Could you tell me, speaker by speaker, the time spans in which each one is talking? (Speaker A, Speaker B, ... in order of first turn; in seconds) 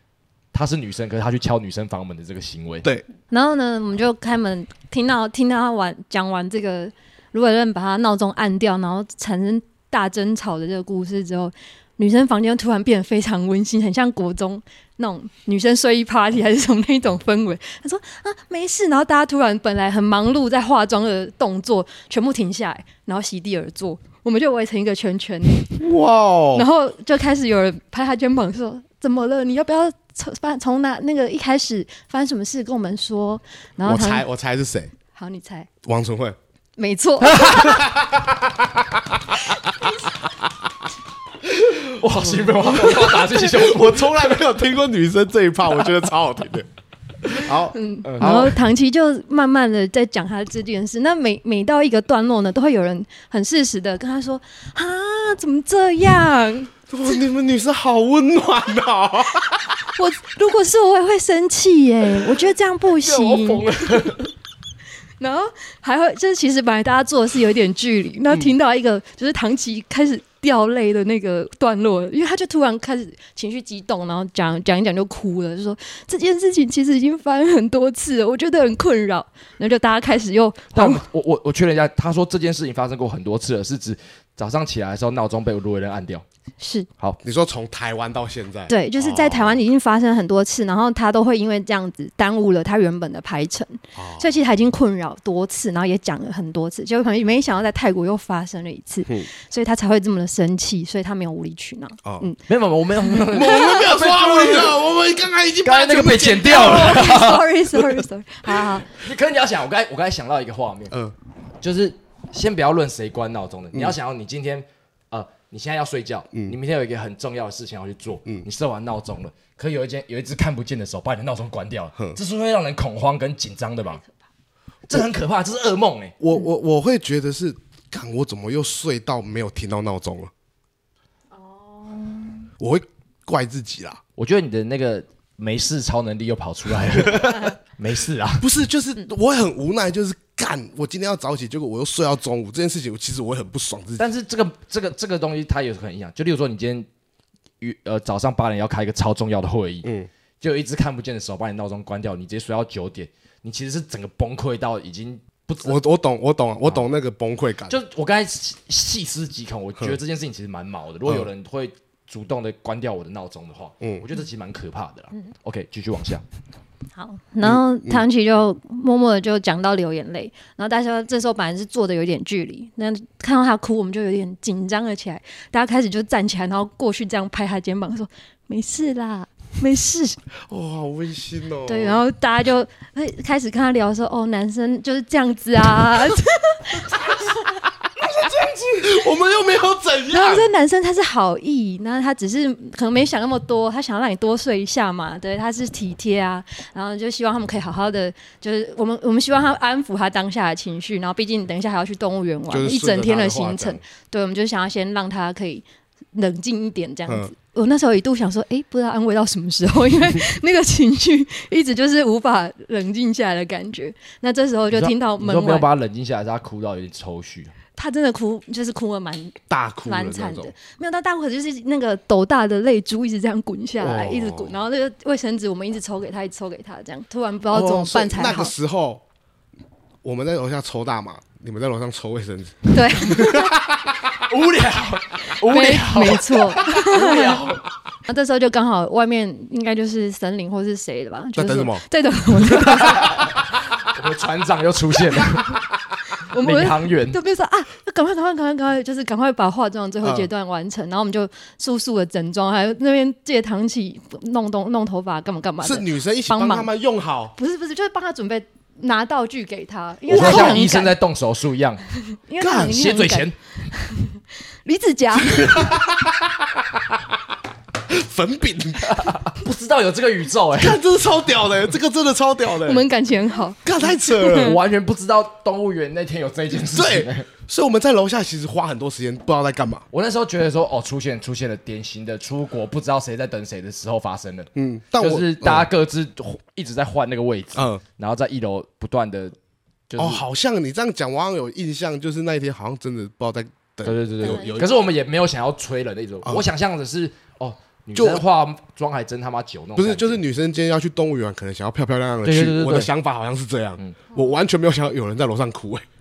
Speaker A: 0.5-2.9, 41.9-44.4, 63.0-64.2, 80.7-86.2, 102.5-104.8, 105.6-107.4, 108.9-111.0, 111.6-124.0, 124.9-126.1, 134.2-138.5, 144.0-146.9, 147.6-149.9, 150.4-155.8, 157.7-166.2, 214.7-217.5, 234.3-237.6, 243.9-245.6, 246.4-247.2, 260.1-261.8, 262.5-263.3, 268.9-270.8, 274.4-277.3, 279.9-289.3, 289.9-290.2, 293.8-300.2, 302.2-302.9
Speaker B: 3.3-25.8, 26.5-34.2, 35.1-35.7, 36.8-37.8, 47.7-56.7, 59.9-64.2, 65.2-81.0, 86.6-86.9, 88.7-102.4, 103.1-103.7, 106.4-108.9, 131.3-132.5, 166.9-180.2, 181.7-187.2, 190.1-215.7, 217.8-228.5, 232.7-233.5, 235.4-237.5, 238.1-243.2, 246.3-256.7, 257.4-260.9, 262.2-265.7, 272.6-273.6, 274.2-274.6, 294.2-294.6
Speaker C: 25.8-26.7, 33.8-34.9, 35.8-36.4, 37.4-39.3, 41.5-46.7, 47.3-48.6, 56.9-59.6, 87.2-89.6, 93.9-94.3, 102.0-102.3, 103.3-107.1, 126.2-130.3, 132.6-134.0, 138.4-144.1, 155.6-157.8, 167.4-168.0, 180.5-182.0, 187.9-190.5, 202.5-203.8, 219.5-220.5, 223.8-224.6, 227.5-229.0, 230.0-233.9, 241.3-241.8, 250.0-250.3, 255.6-257.3, 260.1-260.6, 262.4-262.8, 265.2-267.2, 267.9-269.1, 270.6-272.8, 273.6-274.6, 276.7-279.8, 284.5-285.7, 287.6-287.8, 290.0-294.7, 297.9-298.2, 299.8-305.8